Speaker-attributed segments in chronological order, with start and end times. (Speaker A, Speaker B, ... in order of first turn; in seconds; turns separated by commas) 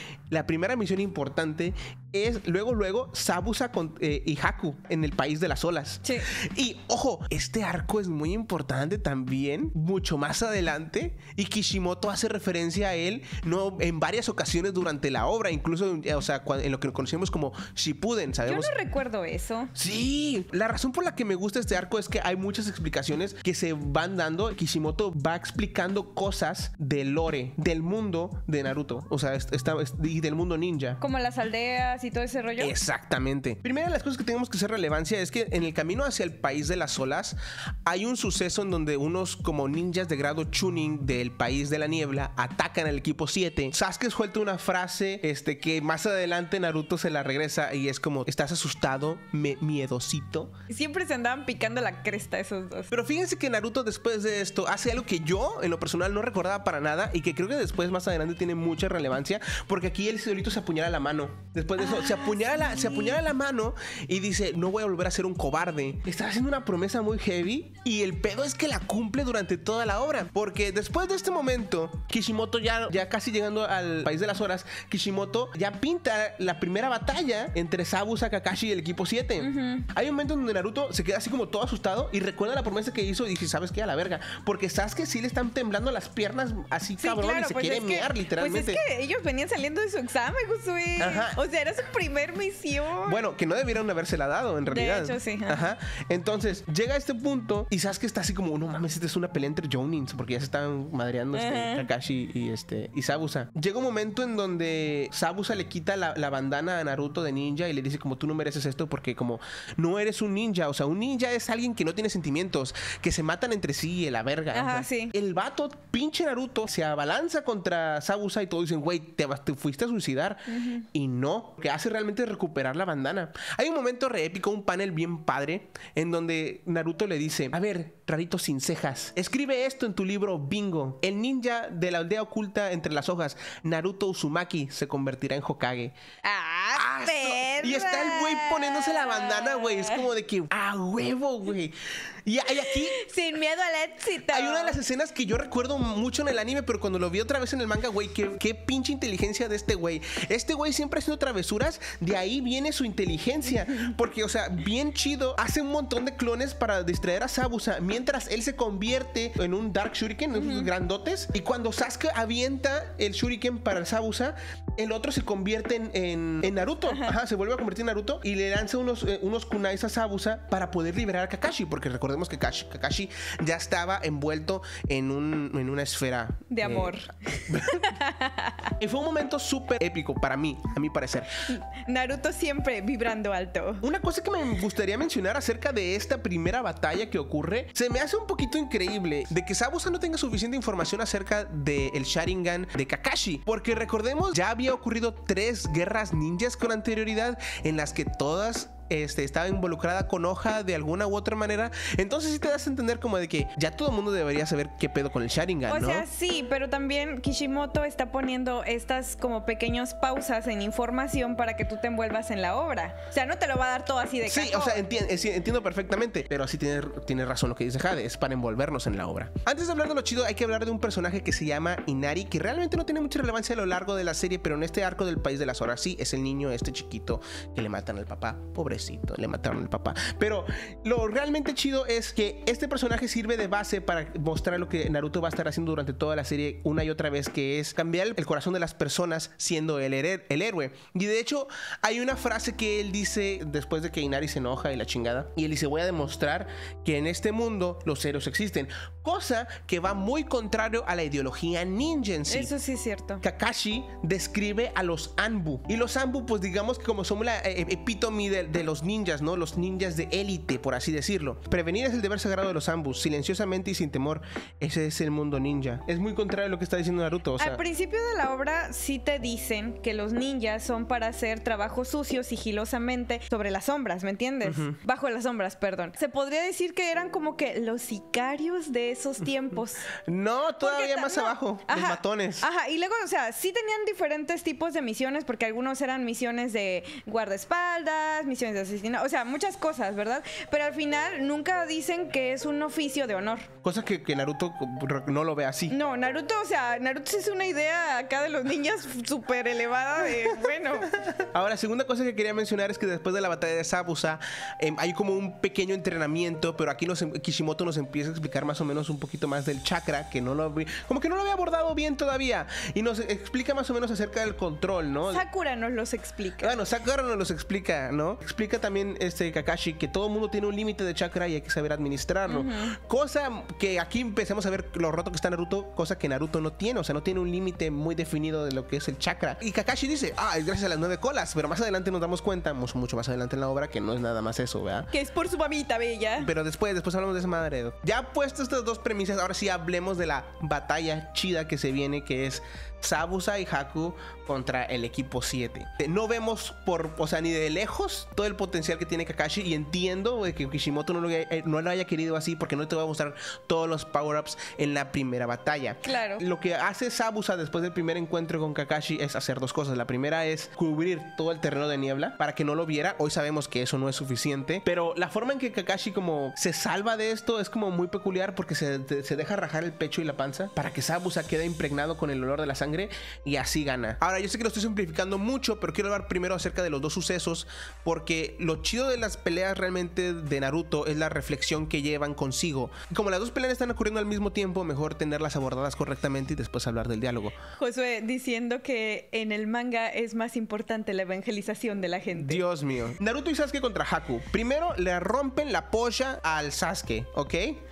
Speaker A: 0.3-18.7, Speaker B: 18.4-19.7, Speaker A: 19.8-31.0, Speaker B: 31.0-32.7, Speaker A: 32.6-50.5, Speaker B: 50.7-52.9, Speaker A: 52.9-88.8, Speaker B: 61.8-63.2, Speaker B: 79.4-79.9, Speaker B: 87.0-93.2, Speaker A: 91.0-91.4, Speaker A: 93.0-136.0, Speaker B: 94.7-95.7, Speaker B: 101.3-101.9, Speaker B: 114.5-115.1, Speaker B: 120.5-120.8, Speaker B: 136.2-140.1, Speaker A: 136.7-143.0, Speaker B: 142.5-144.8, Speaker A: 144.3-177.0, Speaker B: 160.3-160.7, Speaker B: 166.9-167.2, Speaker B: 176.5-178.7, Speaker A: 177.5-177.9, Speaker A: 178.8-181.4, Speaker B: 181.5-183.8, Speaker A: 183.8-206.1, Speaker B: 205.7-214.8, Speaker A: 214.3-252.5, Speaker B: 252.3-253.2, Speaker A: 253.2-267.6, Speaker B: 267.4-279.9, Speaker A: 274.4-274.8, Speaker A: 280.0-282.4, Speaker B: 280.6-293.5, Speaker A: 293.6-295.8, Speaker B: 295.7-300.9, Speaker A: 300.9-315.2, Speaker B: 315.1-316.6, Speaker A: 316.4-334.9, Speaker B: 322.3-322.8, Speaker B: 334.9-336.3, Speaker A: 336.2-387.4, Speaker B: 355.9-356.2, Speaker B: 387.6-392.4, Speaker A: 392.2-397.6